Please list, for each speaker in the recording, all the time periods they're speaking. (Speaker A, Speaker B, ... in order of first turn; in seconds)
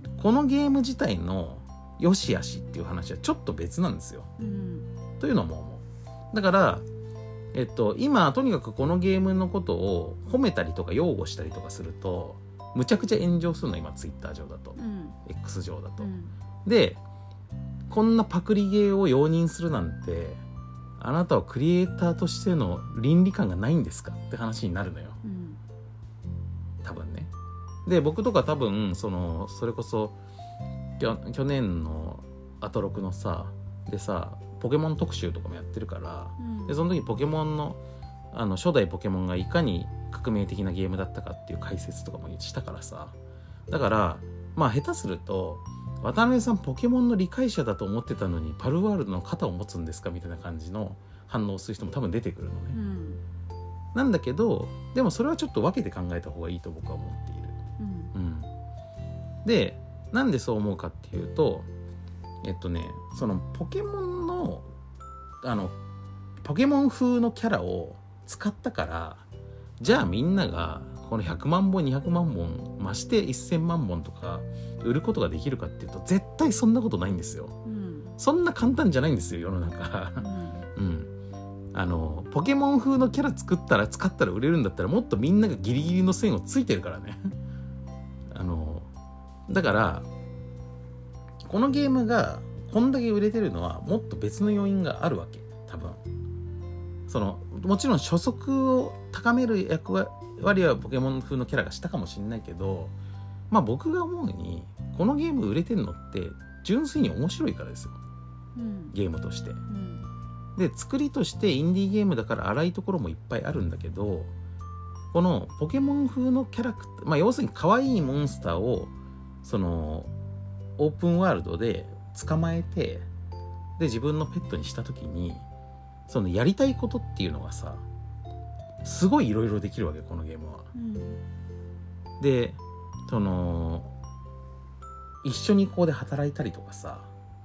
Speaker A: 0.2-4.3, 5.2-6.8, 7.5-16.1, 16.6-17.0, 17.9-20.4, 21.0-25.2, 26.8-27.3, 27.8-30.1, 31.0-37.8, 38.3-43.1, 43.7-52.8, 53.9-57.6, 58.1-58.5, 59.4-61.7, 62.4-64.7, 65.4-65.7, 66.4-69.2, 69.8-77.5, 78.2-81.1, 81.7-87.3, 88.3-88.9, 89.5-90.1, 91.4-96.0, 97.1-102.9, 103.5-108.0, 108.9-109.6, 110.5-114.3, 115.1-118.9, 119.4-120.1, 120.8-123.0, 123.8-125.4, 126.1-127.8, 128.8-130.7, 132.2-133.9, 135.2-137.1
Speaker B: 4.4-4.9, 14.8-15.2, 16.0-16.3, 25.2-25.6, 36.4-36.8, 52.7-53.2, 57.8-58.1, 77.6-78.2, 80.2-80.7, 108.5-109.0, 109.7-110.1, 130.7-131.2